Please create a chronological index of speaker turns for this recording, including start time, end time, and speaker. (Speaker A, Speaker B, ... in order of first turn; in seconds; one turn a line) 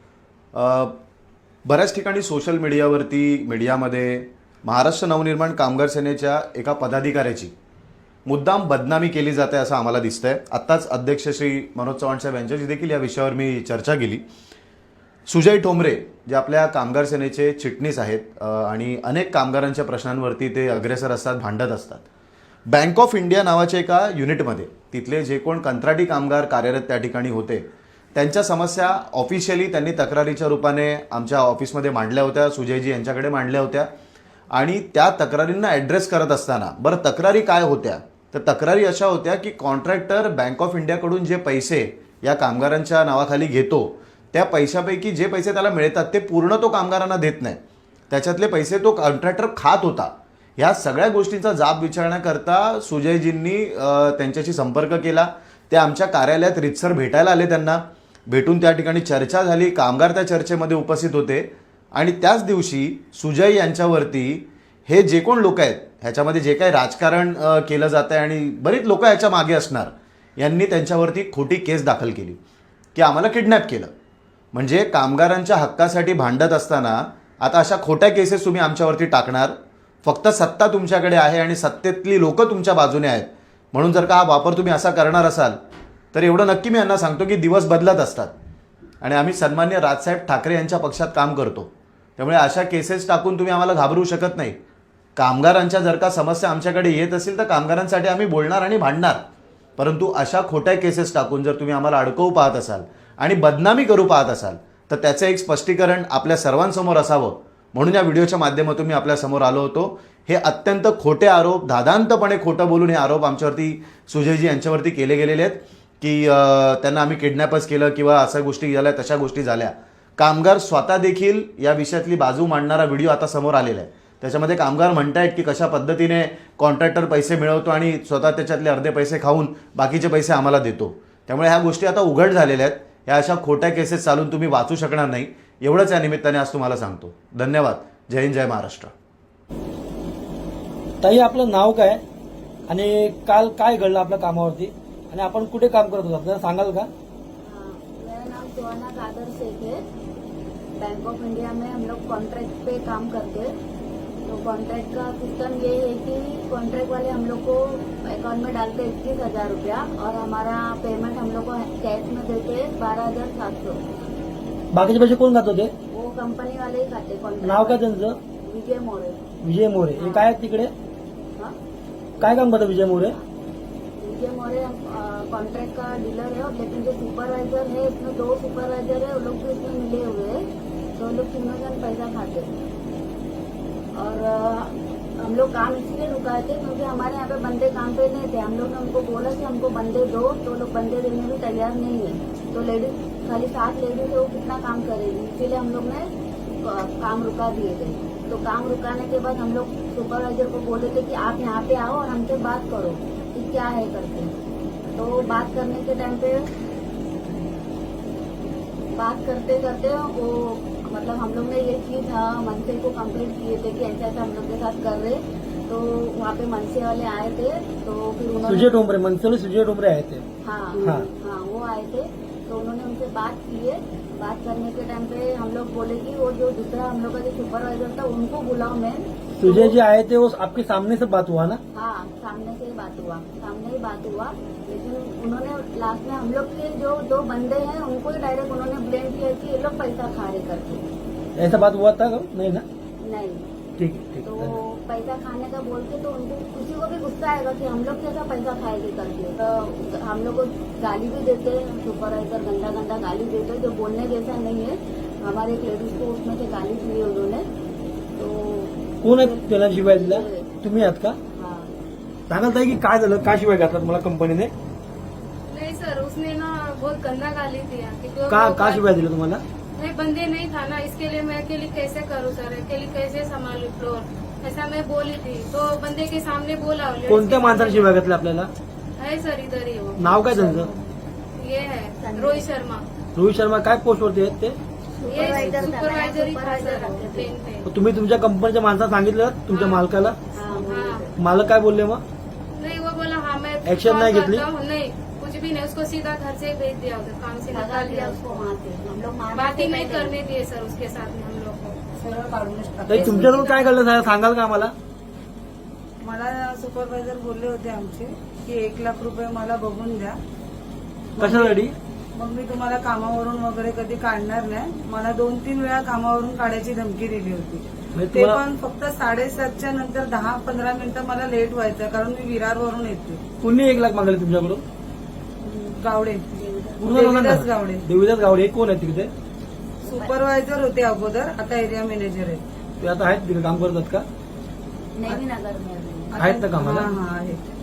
Speaker A: 0.5-0.9
Speaker A: 1.6-7.5
Speaker A: 8.3-14.2
Speaker A: 15.3-22.1
Speaker A: 22.7-33.9
Speaker A: 34.5-47.6
Speaker A: 48.1-72.4
Speaker A: 72.9-73.9
Speaker A: 74.5-85.6
Speaker A: 86.1-88.3
Speaker A: 89.0-94.5
Speaker A: 95.2-99.2
Speaker A: 99.8-138.9
Speaker B: 141.0-142.0
Speaker B: 142.7-146.9
Speaker C: 147.4-149.8
Speaker C: 150.8-153.5
Speaker C: 154.2-163.8
Speaker B: 164.7-165.7
Speaker C: 165.9-167.8
Speaker B: 167.4-168.2
Speaker C: 168.4-169.2
Speaker B: 169.4-170.7
Speaker C: 169.9-170.3
Speaker C: 172.2-173.3
Speaker B: 172.2-173.2
Speaker C: 174.0-182.5
Speaker C: 183.9-196.1
Speaker C: 196.6-204.3
Speaker C: 204.9-206.5
Speaker C: 208.9-218.7
Speaker B: 218.4-220.2
Speaker C: 220.4-229.7
Speaker B: 220.8-221.1
Speaker B: 229.4-231.6
Speaker C: 231.7-240.9
Speaker B: 241.3-242.6
Speaker C: 243.0-243.5
Speaker B: 243.8-244.6
Speaker C: 244.2-257.4
Speaker C: 258.1-260.5
Speaker B: 259.0-261.2
Speaker C: 261.3-261.7
Speaker B: 262.3-264.5
Speaker D: 265.5-268.9
Speaker B: 268.3-269.4
Speaker D: 269.8-278.0
Speaker B: 277.1-278.5
Speaker D: 279.0-280.5
Speaker B: 280.0-280.7
Speaker C: 280.3-280.9
Speaker D: 281.4-282.9
Speaker C: 282.0-282.4
Speaker B: 283.1-284.6
Speaker C: 285.0-287.3
Speaker D: 285.1-287.7
Speaker B: 287.7-290.1
Speaker D: 289.5-289.8
Speaker C: 290.3-291.1
Speaker D: 290.4-291.1
Speaker B: 291.2-292.0
Speaker D: 292.5-298.4
Speaker B: 293.6-294.4
Speaker C: 297.5-300.2
Speaker D: 299.3-301.8
Speaker E: 301.9-302.9
Speaker C: 302.9-303.7
Speaker B: 302.9-304.7
Speaker E: 306.0-310.2
Speaker E: 311.2-311.6
Speaker B: 311.2-311.7
Speaker E: 312.1-323.2
Speaker B: 317.9-318.4
Speaker B: 323.4-324.6
Speaker C: 325.4-325.8
Speaker E: 325.8-326.2
Speaker C: 326.3-326.9
Speaker B: 326.8-329.1
Speaker E: 326.9-327.8
Speaker C: 329.8-330.1
Speaker E: 329.8-332.4
Speaker B: 332.8-334.0
Speaker C: 334.9-336.2
Speaker E: 336.1-337.4
Speaker B: 336.2-336.9